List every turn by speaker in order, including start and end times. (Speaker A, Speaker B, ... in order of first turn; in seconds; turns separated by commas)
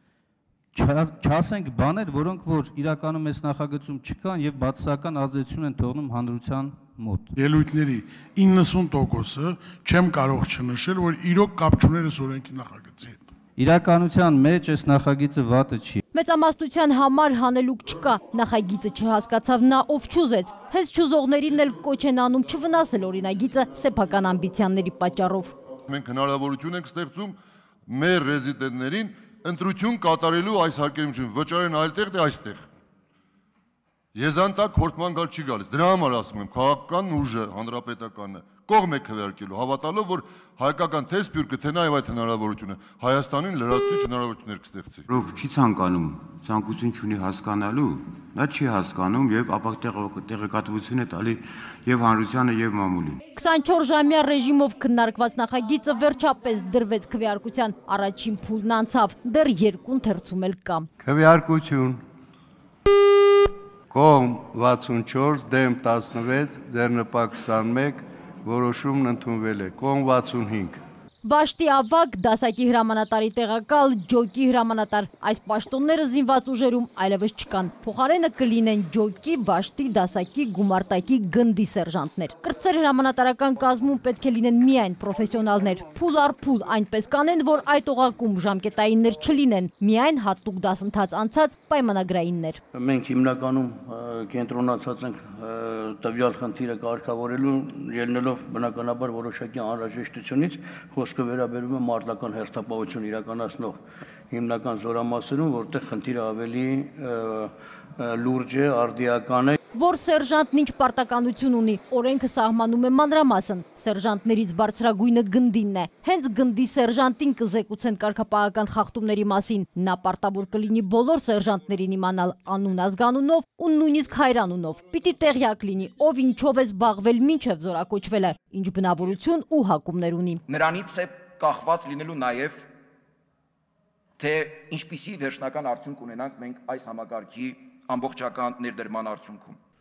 Speaker A: 0.7-7.3, Speaker B: 7.4-13.2, Speaker A: 13.6-16.0, Speaker C: 16.1-25.6, Speaker D: 25.9-32.6, Speaker D: 34.1-45.1, Speaker E: 45.1-53.2, Speaker C: 53.4-60.9, Speaker F: 61.0-62.0, Speaker F: 63.9-70.8, Speaker C: 71.2-92.6, Speaker G: 92.7-103.8, Speaker G: 104.3-109.6, Speaker C: 109.7-130.4, Speaker H: 130.5-132.7, Speaker H: 134.2-139.6